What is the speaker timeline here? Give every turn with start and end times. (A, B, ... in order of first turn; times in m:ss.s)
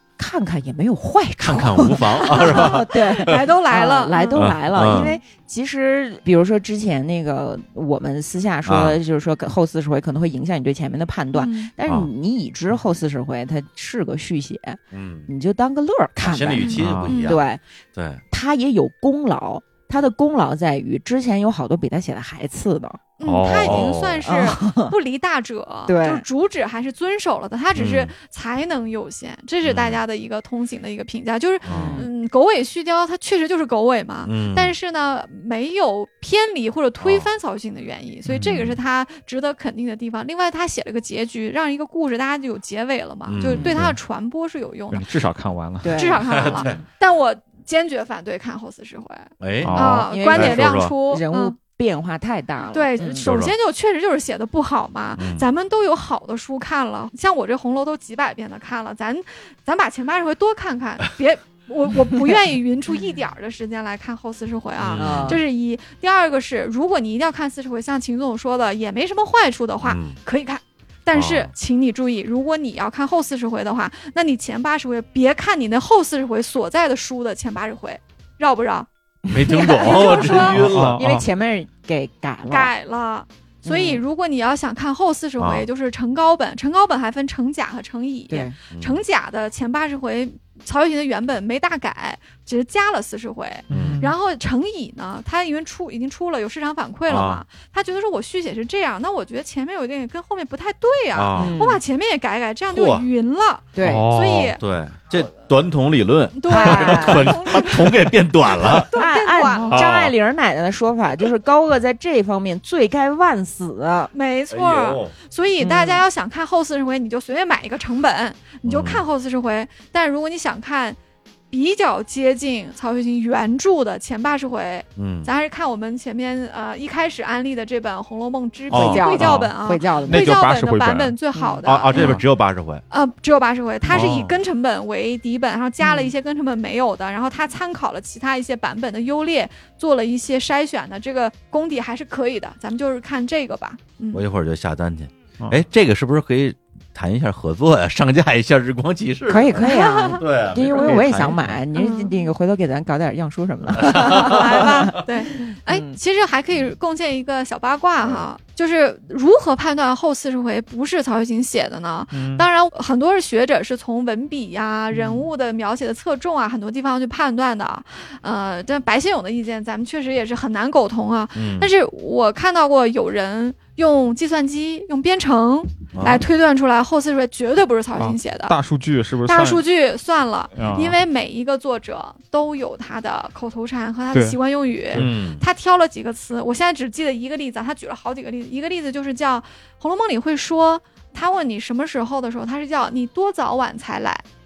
0:00.2-0:17.6 A
0:01.4-0:03.4 B
0:02.2-0:05.2 C
0:04.4-0:05.1 B
0:08.7-0:09.0 B
0:11.3-0:11.7 C
0:14.9-0:15.3 B
0:16.2-0:17.4 B
0:16.6-0:17.4 C
0:16.8-0:17.2 D
0:18.0-0:18.2 B
0:18.3-0:23.0 A
0:23.2-0:45.1 C
0:23.2-0:23.9 D
0:23.5-0:24.3 B
0:24.2-0:24.9 A
0:25.9-0:26.2 A
0:27.8-0:28.1 B
0:29.6-0:30.0 B
0:31.6-0:32.0 B
0:31.7-0:32.1 A
0:34.3-0:34.7 B
0:37.0-0:37.3 B
0:38.4-0:38.8 B
0:43.3-0:44.0 B
0:43.5-0:43.8 A
0:44.9-0:46.0 D
0:45.8-0:46.8 A
0:46.0-0:51.6 C
0:46.3-0:46.8 B
0:49.4-0:51.0 B
0:49.6-0:50.1 D
0:49.9-0:53.3 A
0:52.7-1:18.9 C
0:53.0-0:53.5 B
0:55.2-0:55.5 B
1:04.8-1:05.4 B
1:05.0-1:05.4 A
1:09.8-1:10.2 B
1:11.1-1:11.5 B
1:19.3-1:22.7 A
1:19.3-1:21.1 B
1:19.5-1:20.6 C
1:20.6-1:21.2 D
1:22.5-1:44.6 C
1:23.6-1:24.0 A
1:25.4-1:25.7 B
1:28.3-1:28.6 A
1:28.7-1:29.0 B
1:33.7-1:34.0 B
1:33.7-1:34.1 D
1:37.1-1:37.4 B
1:41.1-1:41.6 B
1:41.3-1:41.8 A
1:42.7-1:43.1 B
1:43.8-1:44.1 A
1:43.8-1:44.5 D
1:44.4-1:48.9 B
1:46.4-1:48.1 C
1:46.5-1:47.4 A
1:48.7-1:54.1 A
1:48.7-1:49.9 C
1:49.7-1:50.1 D
1:54.1-2:01.0 C
1:54.5-1:55.2 B
1:55.6-1:56.0 A
1:58.6-1:59.0 B
2:01.5-2:12.2 C
2:05.0-2:05.3 B
2:08.7-2:09.5 B
2:08.7-2:10.4 A
2:09.2-2:09.5 D
2:10.0-2:11.2 D
2:11.4-2:11.7 A
2:11.7-2:12.8 B
2:11.9-2:12.2 D
2:12.9-2:24.2 C
2:13.9-2:14.4 B
2:15.8-2:16.1 A
2:24.1-2:31.6 B
2:29.3-2:36.0 A
2:29.6-2:31.2 C
2:31.7-2:32.1 C
2:33.7-2:34.4 B
2:33.9-2:58.6 C
2:42.1-2:42.5 D
2:44.9-2:45.3 A
2:51.4-2:51.7 B
2:55.9-2:56.2 B
2:58.0-2:59.6 D
2:59.3-3:14.2 C
3:00.5-3:01.0 D
3:04.9-3:05.4 B